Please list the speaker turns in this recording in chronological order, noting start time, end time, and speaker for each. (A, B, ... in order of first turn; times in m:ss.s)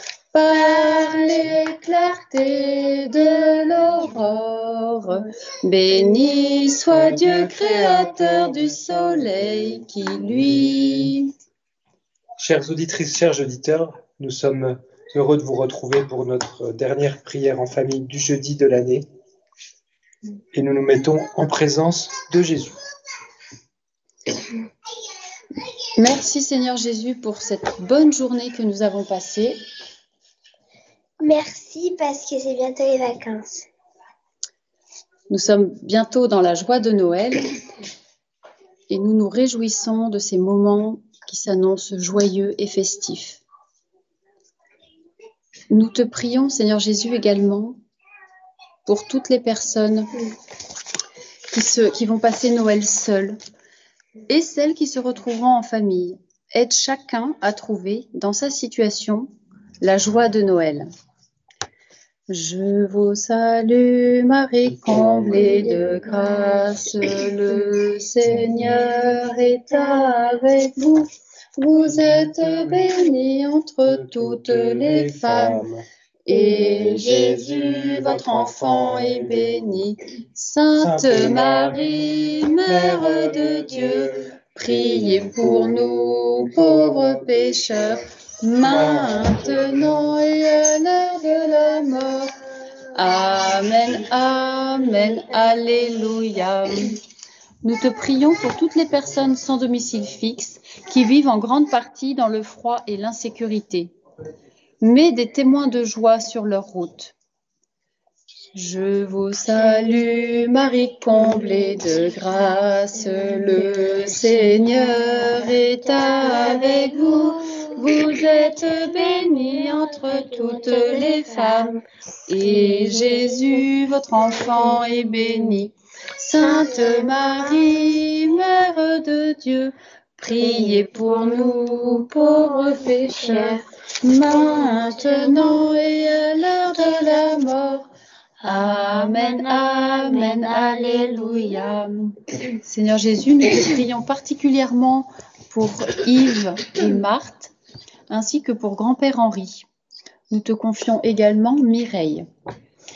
0:00.3-0:11.3 A
0:06.9-0:08.8 B
0:10.3-0:11.1 B
0:12.4-0:19.1 B
0:20.5-0:22.8 B
0:26.0-0:29.6 A
0:31.2-0:33.6 C
0:35.3-0:37.4 A
0:38.9-0:43.4 A
0:45.7-0:47.8 A
0:48.8-0:50.2 A
0:51.5-0:53.4 A
0:54.3-0:59.3 A
0:59.8-1:00.9 A
1:02.3-1:15.6 A
1:04.8-1:05.8 B
1:11.8-1:12.9 B
1:13.8-1:15.8 B
1:16.2-1:32.3 A
1:16.4-1:19.7 B
1:20.8-1:27.5 B
1:28.6-1:30.2 B
1:32.9-1:37.0 A
1:37.6-1:43.9 A
1:44.8-1:47.1 A
1:48.6-2:17.9 A
1:56.0-1:57.3 C
2:18.4-2:27.5 A
2:28.1-2:29.7 A
2:30.3-2:32.2 A